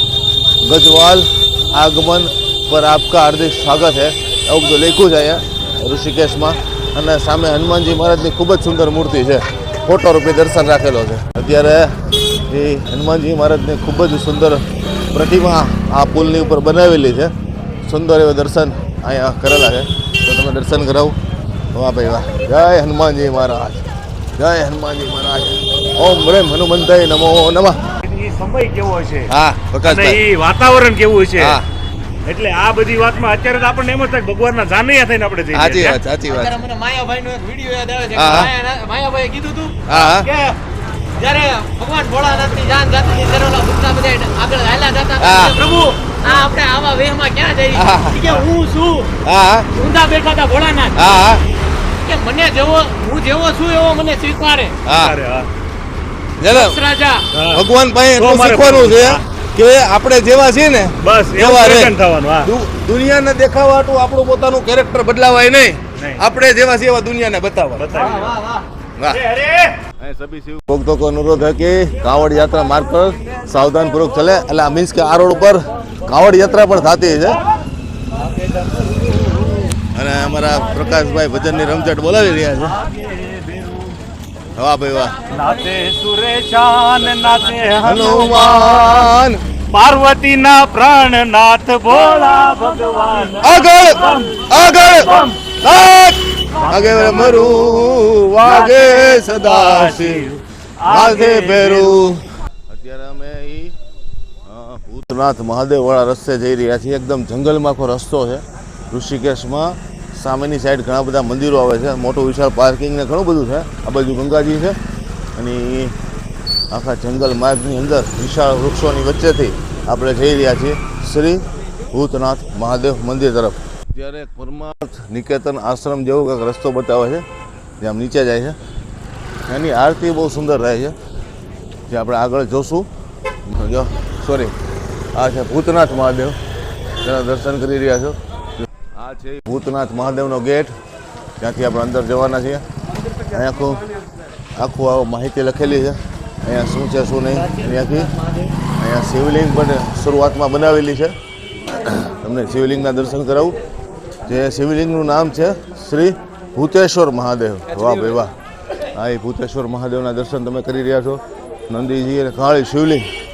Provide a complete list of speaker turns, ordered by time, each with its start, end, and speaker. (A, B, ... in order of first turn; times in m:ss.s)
0:00.6-0:17.3 A
0:17.8-0:21.2 A
0:21.7-0:27.9 A
0:28.0-0:31.6 B
0:29.3-0:30.2 A
0:31.4-0:31.6 A
0:32.2-0:36.0 B
0:35.5-0:36.6 A
0:36.3-0:40.6 C
0:38.1-0:38.5 A
0:39.9-0:40.3 A
0:41.2-0:49.1 C
0:45.2-0:45.6 A
0:47.7-0:48.3 A
0:49.2-0:49.7 A
0:49.7-0:51.0 C
0:50.9-0:51.4 A
0:52.0-0:54.8 C
0:54.9-0:55.1 A
0:54.9-0:55.5 B
0:56.4-0:56.8 A
0:56.5-0:57.3 C
0:57.3-0:57.6 B
0:57.5-1:08.2 A
0:58.2-0:59.2 B
1:01.0-1:02.5 B
1:06.0-1:06.2 B
1:07.7-1:08.5 B
1:09.0-1:09.3 A
1:09.1-1:09.8 B
1:10.0-1:17.4 A
1:18.1-1:19.7 B
1:19.9-1:22.8 A
1:22.6-1:24.0 B
1:24.6-1:25.2 A
1:25.3-1:29.1 B
1:27.8-1:29.4 A
1:29.7-1:35.4 B
1:33.4-1:40.3 A
1:36.6-1:42.2 B
1:40.8-1:43.7 A
1:44.4-1:54.8 A
1:55.4-1:56.0 A
1:56.7-2:07.2 A
2:07.8-2:08.6 A
2:09.5-2:11.0 A
2:11.9-2:12.9 A
2:13.5-2:14.6 A
2:15.1-2:16.4 A
2:17.0-2:20.8 A
2:21.4-2:22.6 A
2:23.3-2:23.8 A
2:24.6-2:28.2 A
2:28.8-2:31.2 A
2:31.7-2:33.6 A
2:34.2-2:38.3 A
2:38.8-2:43.1 A